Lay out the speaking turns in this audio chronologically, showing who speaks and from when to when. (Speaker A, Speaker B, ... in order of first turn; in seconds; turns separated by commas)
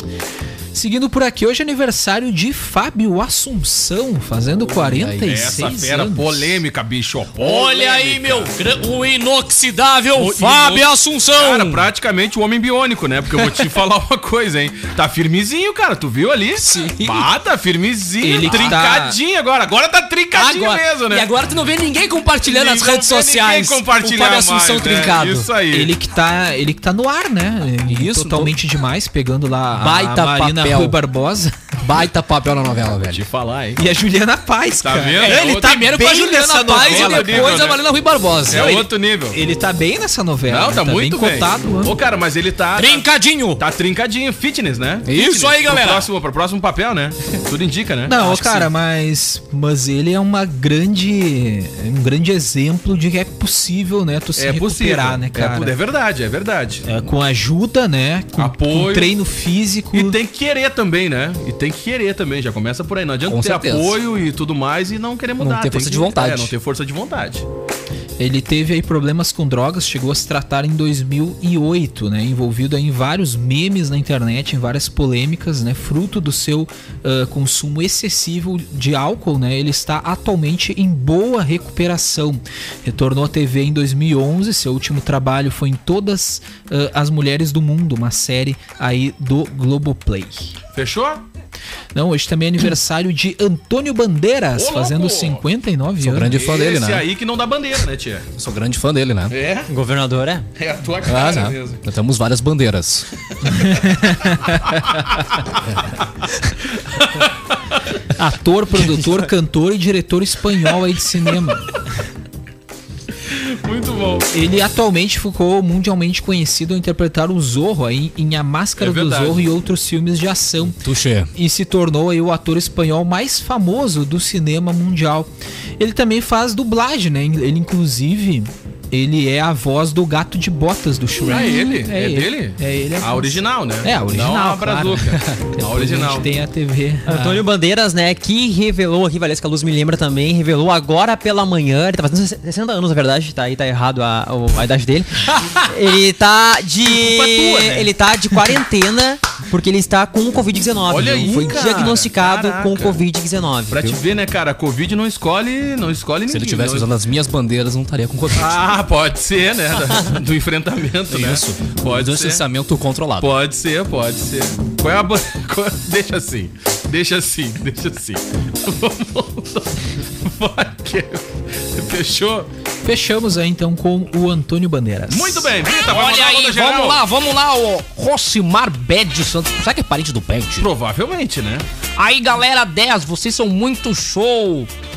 Speaker A: 0.7-6.6, Speaker B: 4.8-5.7, Speaker C: 5.2-8.5, Speaker B: 7.4-11.9, Speaker C: 10.1-21.3, Speaker B: 16.6-17.3, Speaker A: 18.2-19.2, Speaker B: 18.5-18.8, Speaker B: 20.3-25.4, Speaker C: 22.4-25.9, Speaker A: 25.7-31.7, Speaker B: 27.9-28.6, Speaker B: 29.8-31.0, Speaker B: 31.8-33.2, Speaker C: 33.1-33.8, Speaker A: 33.8-37.7, Speaker C: 34.8-35.9, Speaker B: 35.2-38.8, Speaker C: 36.8-37.8, Speaker C: 38.5-39.4, Speaker A: 38.5-41.9, Speaker C: 40.5-48.2, Speaker B: 42.8-43.6, Speaker B: 45.0-46.1, Speaker A: 48.0-55.8, Speaker B: 48.2-48.7, Speaker C: 54.4-56.8, Speaker A: 56.9-60.2, Speaker C: 58.4-59.1, Speaker C: 59.9-67.5, Speaker B: 63.3-64.0, Speaker B: 65.4-66.5, Speaker A: 68.2-90.5, Speaker C: 90.7-91.2, Speaker A: 91.9-96.4, Speaker C: 94.5-95.4, Speaker B: 96.0-97.0, Speaker C: 96.3-98.3, Speaker B: 98.3-99.3, Speaker C: 99.3-99.7, Speaker D: 99.7-100.5, Speaker C: 100.5-101.8, Speaker B: 101.0-103.1, Speaker A: 103.5-104.6, Speaker C: 104.6-105.5, Speaker C: 106.8-107.8, Speaker A: 108.1-111.7, Speaker C: 113.3-114.3, Speaker A: 114.3-120.8, Speaker C: 118.8-119.5, Speaker B: 120.8-121.3, Speaker A: 121.3-137.5, Speaker C: 131.2-136.3, Speaker D: 137.1-154.0, Speaker C: 147.1-147.8, Speaker C: 150.9-153.0, Speaker C: 153.7-156.9, Speaker B: 156.3-158.6, Speaker C: 158.3-162.4, Speaker B: 161.1-163.3, Speaker C: 163.2-172.5, Speaker A: 172.8-175.5, Speaker C: 175.1-177.0, Speaker B: 175.8-180.7, Speaker C: 180.6-181.7, Speaker B: 181.9-184.7